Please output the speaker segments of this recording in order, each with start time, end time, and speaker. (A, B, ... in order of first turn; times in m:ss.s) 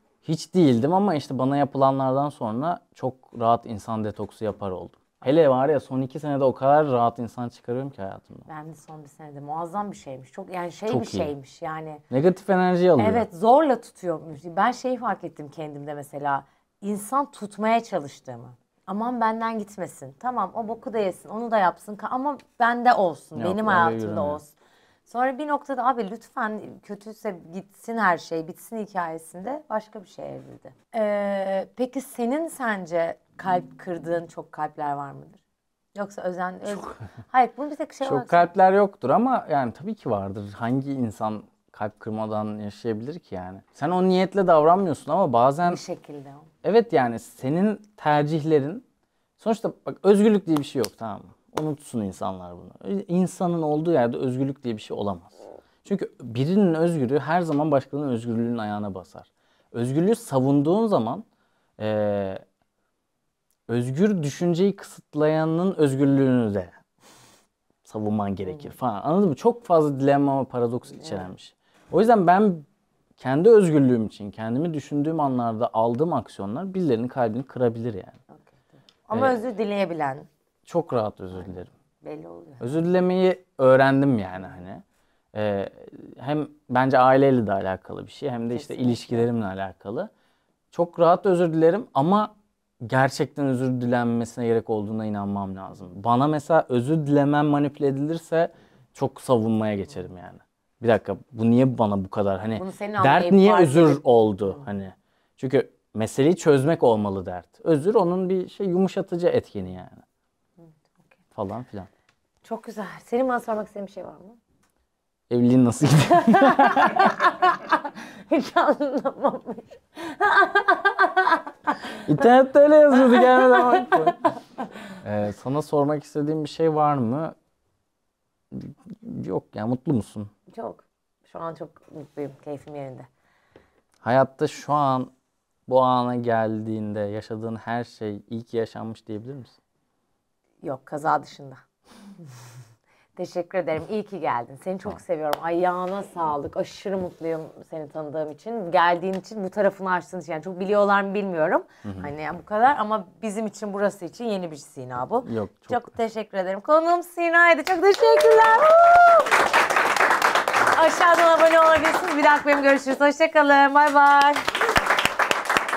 0:00.2-0:08.5 A
0:08.5-0:12.0 B
0:10.9-0:11.3 A
0:12.1-0:13.3 A
0:13.0-0:24.5 B
0:23.4-0:24.4 A
0:25.1-0:35.4 B
0:35.9-0:38.5 B
0:36.7-0:37.0 A
0:38.0-0:45.8 A
0:45.6-0:46.5 B
0:46.6-0:48.8 A
0:49.4-1:01.2 A
1:01.8-1:02.4 A
1:03.7-1:06.7 A
1:07.8-1:12.7 A
1:13.2-1:18.2 A
1:18.4-1:20.3 B
1:19.1-1:19.4 A
1:20.7-1:21.7 A
1:22.0-1:22.7 B
1:22.6-1:30.1 A
1:28.5-1:29.3 B
1:30.7-1:50.0 A
1:42.6-1:44.0 B
1:51.4-1:51.9 A
1:52.4-1:54.4 B
1:55.3-1:57.1 A
1:56.1-2:01.7 B
2:02.0-2:04.2 A
2:03.1-2:04.1 B
2:05.0-2:07.4 A
2:08.5-2:10.3 A
2:10.5-2:13.1 B
2:14.0-2:15.1 A
2:15.7-2:19.5 A
2:20.6-2:21.6 B
2:23.2-2:39.4 B
2:31.8-2:32.1 A
2:35.2-2:35.9 A
2:40.7-2:44.5 B